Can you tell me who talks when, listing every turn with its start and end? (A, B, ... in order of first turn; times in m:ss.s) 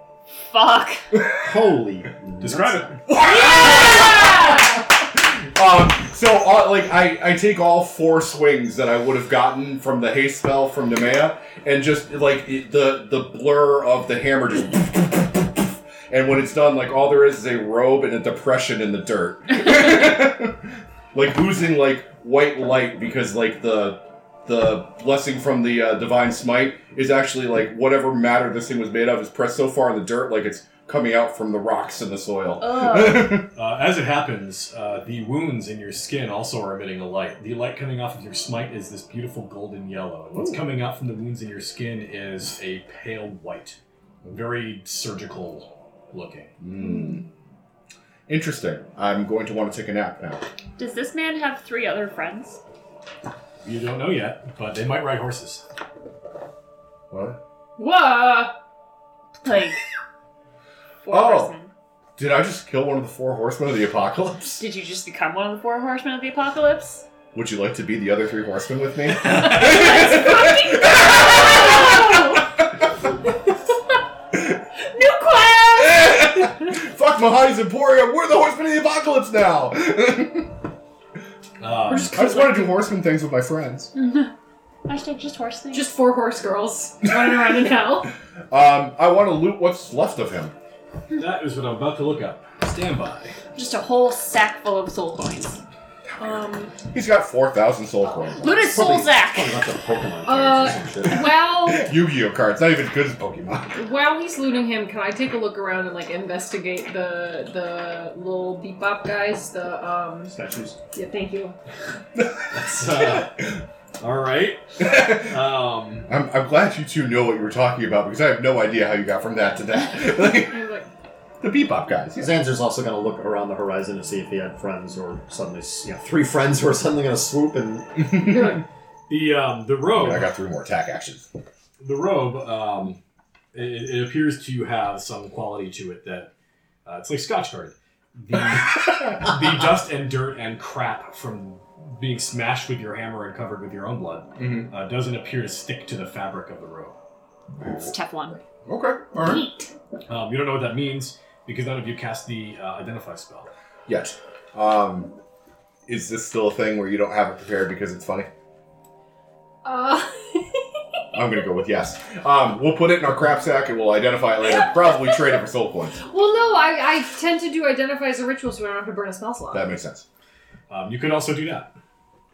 0:00.5-0:01.1 A
0:01.1-0:01.4 B
0:01.4-0:03.0 C
0:02.4-0:03.1 D
0:03.1-0:33.5 B
0:03.5-0:04.5 A
0:32.6-0:33.4 A
0:33.5-0:46.5 D
0:46.6-0:47.2 B
0:48.3-0:50.4 B
0:50.8-0:52.6 A
0:53.6-0:55.6 D
0:57.1-0:57.4 B
0:57.8-0:58.6 E
0:59.4-0:59.8 A
1:01.0-1:01.7 A
1:01.1-1:01.5 B
1:02.2-1:04.6 B
1:04.6-1:07.0 A
1:07.3-1:12.7 B
1:09.2-1:12.0 A
1:11.7-1:12.4 E
1:15.0-1:15.9 A
1:15.8-1:20.5 B
1:21.6-1:22.3 D
1:21.9-1:23.9 B
1:21.9-1:22.7 E
1:23.9-1:24.3 A
1:24.8-1:25.9 A
1:25.7-1:28.1 E
1:27.0-1:27.7 B
1:28.5-1:30.5 B
1:31.2-1:33.4 D
1:33.5-1:35.6 A
1:36.2-1:36.8 E
1:36.8-1:39.1 B
1:38.0-1:38.4 E
1:38.4-1:39.6 A
1:38.7-1:41.3 C
1:40.2-1:41.9 E
1:41.0-1:43.8 B
1:43.7-1:50.3 E
1:50.3-1:50.8 C
1:50.9-1:51.6 E
1:52.2-1:53.6 B
1:52.5-1:53.5 D
1:54.0-1:56.1 D
1:54.8-1:55.3 B
1:56.1-2:00.6 B
2:00.2-2:00.9 E
2:01.4-2:02.3 B
2:02.2-2:08.3 C
2:08.0-2:08.6 B
2:08.1-2:08.6 E
2:09.1-2:10.3 D
2:09.9-2:11.2 B
2:11.8-2:13.0 D
2:13.5-2:16.3 D
2:16.8-2:27.0 D
2:18.8-2:19.2 B
2:24.4-2:24.7 B
2:27.6-2:27.9 B
2:27.7-2:28.4 A
2:28.6-2:29.5 B
2:29.3-2:29.6 A
2:30.1-2:33.5 D
2:33.9-2:35.1 B
2:35.9-2:38.3 B
2:39.6-2:40.6 E
2:41.1-2:46.0 B
2:46.0-2:49.6 E
2:49.5-2:50.0 B
2:50.7-2:51.7 D